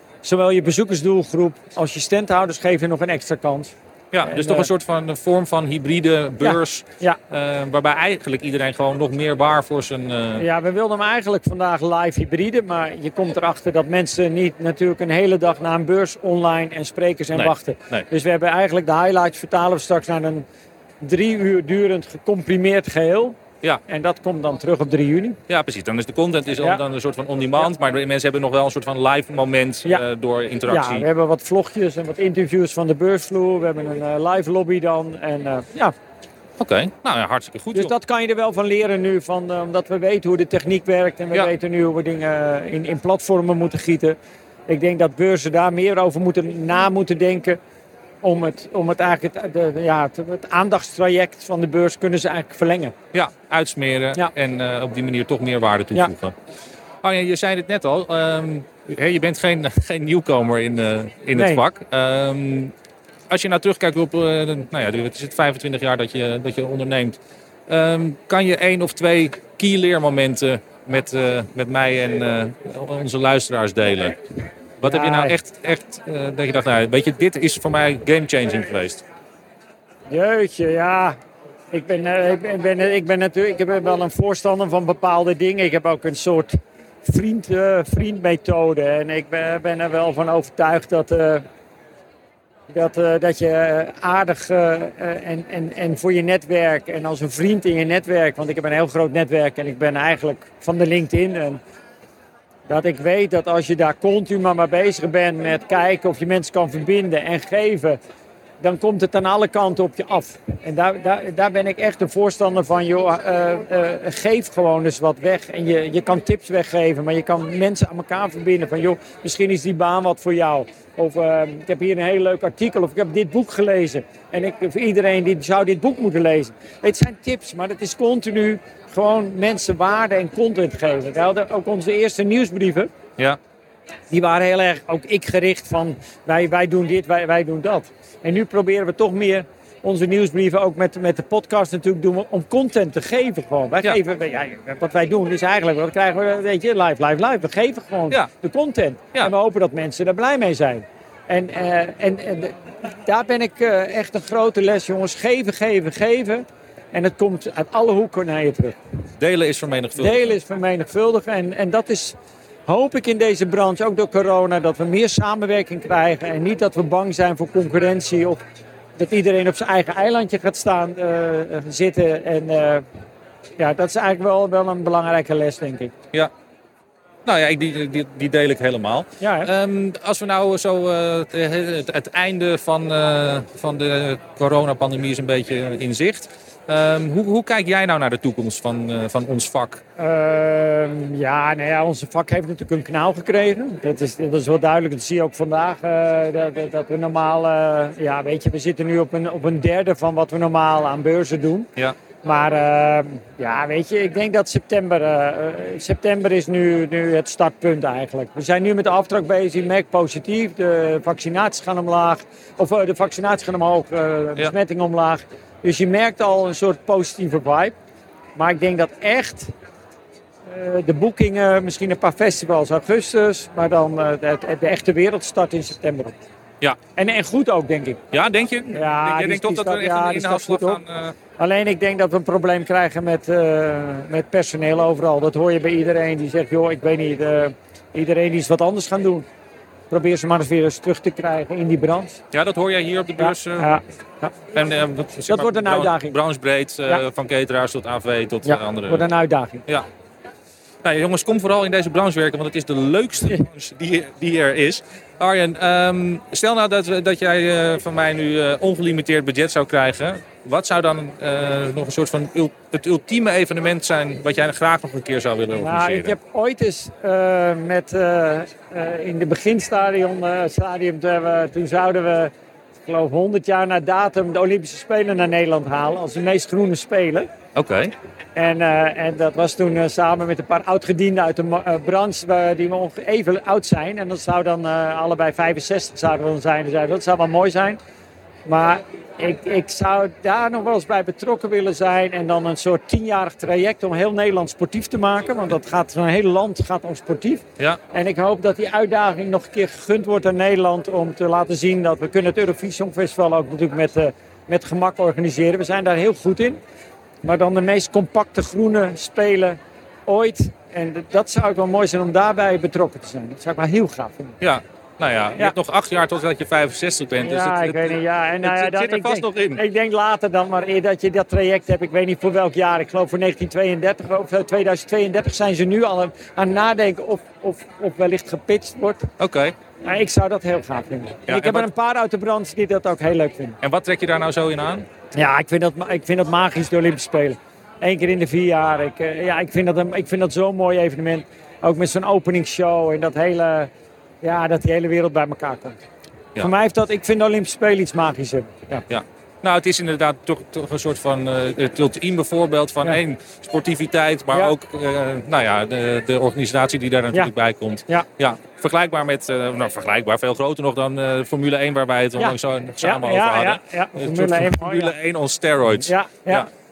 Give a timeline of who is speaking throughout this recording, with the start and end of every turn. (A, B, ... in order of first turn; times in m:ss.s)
0:00.2-0:04.7 A
0:04.1-0:10.4 B
0:06.4-0:07.2 A
0:10.4-0:20.4 A
0:17.3-0:18.0 B
0:21.0-0:25.4 A
0:25.5-0:31.0 B
0:30.7-0:35.9 A
0:36.6-0:37.9 B
0:37.7-0:44.2 A
0:44.7-0:47.6 A
0:48.2-0:52.9 A
0:53.1-0:56.3 B
0:57.0-1:02.7 B
1:01.3-1:01.6 A
1:03.3-1:14.2 B
1:14.8-1:19.0 B
1:14.8-1:15.4 A
1:20.1-1:21.1 A
1:21.7-1:26.5 A
1:27.0-1:31.4 A
1:32.7-1:41.6 A
1:42.7-1:48.0 A
1:48.6-2:12.9 A
2:14.1-2:38.8 A
2:39.2-2:40.4 B
2:40.0-2:42.1 A
2:42.7-2:48.4 A
2:49.0-2:52.8 A
2:53.6-2:55.9 A
2:57.2-3:09.8 B
2:59.2-2:59.5 A
3:10.0-3:21.7 A
3:22.2-3:37.7 A
3:38.4-3:39.5 A
3:40.5-3:46.2 A
3:47.0-3:48.0 A
3:48.1-3:51.1 B
3:48.7-3:50.8 A
3:51.4-3:59.2 A
3:59.9-4:02.2 A
4:02.3-4:03.7 B
4:03.2-4:04.3 A
4:04.5-4:09.0 B
4:05.3-4:06.2 A
4:08.4-4:09.6 A
4:10.8-4:26.2 B
4:25.5-4:32.3 A
4:32.8-4:37.3 A
4:37.5-4:37.9 B
4:38.4-4:47.8 A
4:48.4-5:06.6 A
5:07.2-5:14.4 A
5:14.4-5:19.6 B
5:17.2-5:29.1 A
5:29.2-5:29.5 B
5:29.8-5:33.6 A
5:31.3-5:31.7 B
5:33.6-5:34.8 B
5:35.1-5:43.7 A
5:44.2-5:45.8 A
5:46.4-5:48.8 A
5:48.9-6:06.5 B
6:02.2-6:04.9 A
6:05.8-6:06.5 A